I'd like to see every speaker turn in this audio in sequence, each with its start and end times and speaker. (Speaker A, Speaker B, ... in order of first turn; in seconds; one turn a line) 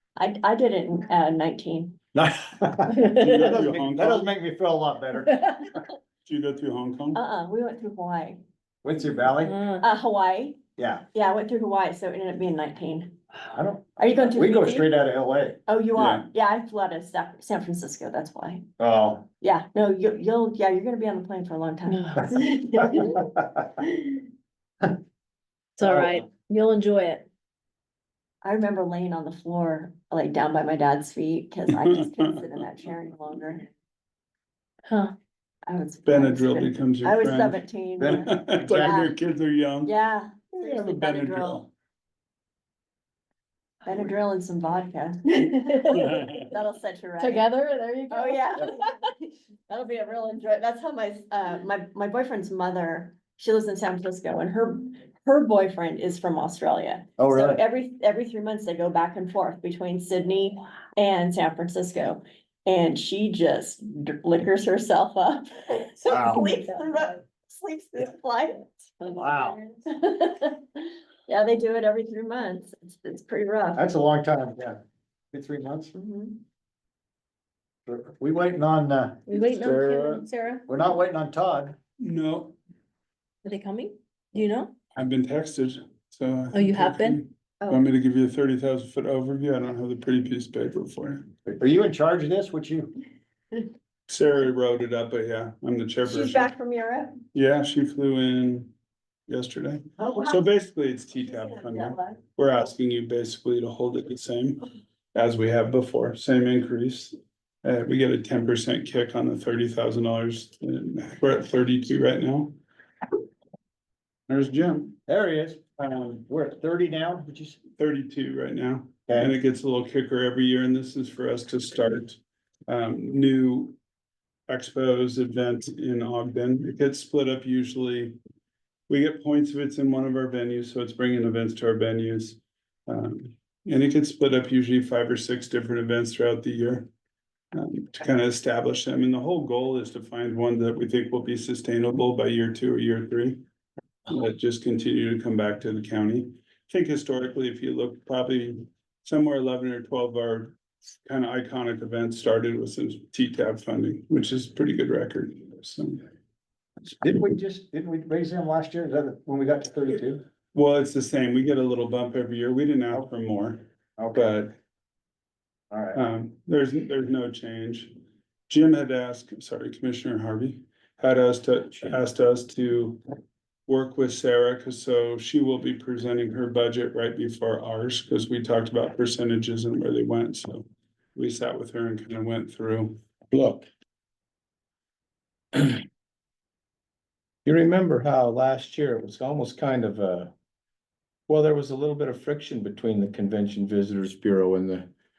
Speaker A: 0.2-2.0
Speaker B: 2.1-5.3
Speaker C: 3.0-3.5
Speaker D: 3.1-4.3
Speaker D: 6.2-7.2
Speaker A: 7.1-8.4
Speaker B: 8.8-9.6
Speaker C: 9.4-9.8
Speaker A: 9.8-10.6
Speaker B: 10.8-11.0
Speaker A: 11.1-13.1
Speaker B: 13.4-15.6
Speaker A: 14.0-14.9
Speaker A: 15.7-18.7
Speaker D: 15.9-16.2
Speaker B: 18.8-19.2
Speaker A: 19.4-23.2
Speaker C: 21.9-22.3
Speaker A: 23.8-24.2
Speaker C: 25.8-27.3
Speaker B: 25.8-26.2
Speaker A: 28.4-33.7
Speaker C: 34.9-35.1
Speaker A: 35.7-39.1
Speaker D: 36.0-39.9
Speaker B: 38.0-39.0
Speaker A: 39.8-41.6
Speaker D: 40.5-41.7
Speaker A: 43.8-47.5
Speaker C: 45.4-46.5
Speaker D: 45.9-46.5
Speaker C: 47.2-48.9
Speaker A: 48.1-49.1
Speaker A: 49.7-68.9
Speaker B: 57.2-57.6
Speaker C: 66.1-67.1
Speaker B: 66.1-66.4
Speaker C: 69.0-69.6
Speaker B: 69.1-69.5
Speaker A: 69.9-73.8
Speaker B: 73.7-74.8
Speaker B: 75.3-75.9
Speaker A: 75.9-76.4
Speaker B: 77.8-79.2
Speaker C: 79.3-80.8
Speaker E: 79.7-80.2
Speaker B: 80.7-81.8
Speaker D: 82.0-82.5
Speaker C: 83.4-84.7
Speaker D: 85.0-91.3
Speaker C: 86.5-87.2
Speaker B: 91.5-92.9
Speaker D: 94.1-96.5
Speaker A: 96.0-97.1
Speaker D: 97.3-98.7
Speaker D: 99.3-112.6
Speaker A: 100.0-100.4
Speaker A: 101.1-102.2
Speaker D: 114.3-114.9
Speaker B: 115.1-117.6
Speaker D: 117.8-123.8
Speaker B: 119.1-119.3
Speaker D: 124.5-128.2
Speaker D: 128.9-136.9
Speaker D: 137.5-143.4
Speaker D: 144.1-156.0
Speaker B: 157.0-160.2
Speaker D: 160.5-164.6
Speaker B: 164.0-164.3
Speaker B: 165.7-166.0
Speaker D: 165.9-168.0
Speaker D: 168.5-173.0
Speaker D: 173.7-183.0
Speaker E: 183.3-183.7
Speaker E: 187.4-190.3
Speaker E: 191.3-194.9